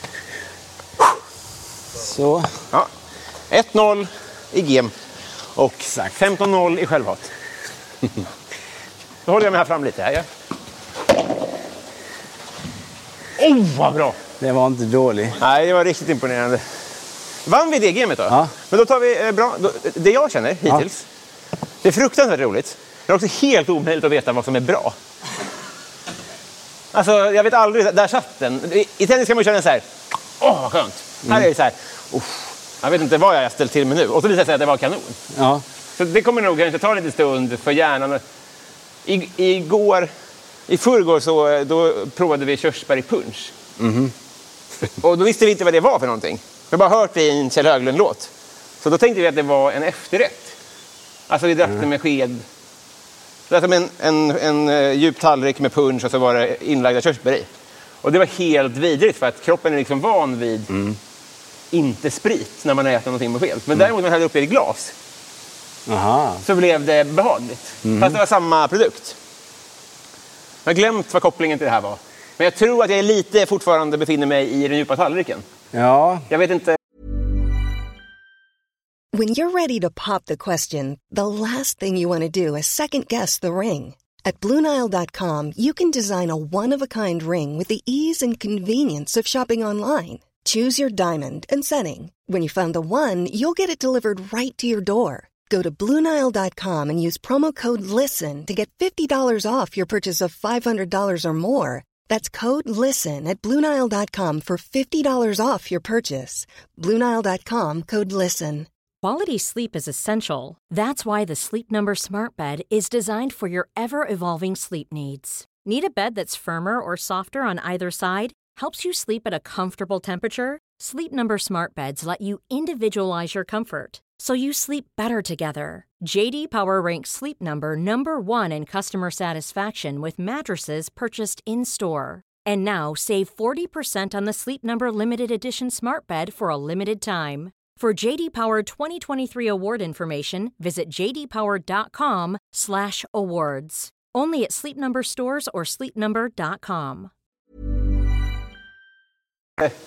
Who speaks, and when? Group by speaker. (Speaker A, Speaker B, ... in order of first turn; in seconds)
Speaker A: 1.9-2.5, 5.9-6.1, 14.4-15.4, 35.3-35.6, 43.8-44.1, 60.7-61.0, 65.9-66.4, 67.8-68.2, 75.7-76.2
Speaker B: 3.5-4.9, 5.5-7.3, 9.2-10.2, 13.4-14.2, 15.4-16.6, 17.4-21.0, 21.8-24.9, 26.9-29.8, 30.4-35.1, 36.0-38.2, 39.0-40.1, 40.7-43.5, 45.0-48.3, 48.8-50.5, 51.3-52.4, 53.5-57.5, 58.0-60.7, 61.7-64.9, 66.4-69.2, 70.7-75.4, 76.3-76.8
Speaker C: 79.1-108.7
Speaker D: 109.0-147.1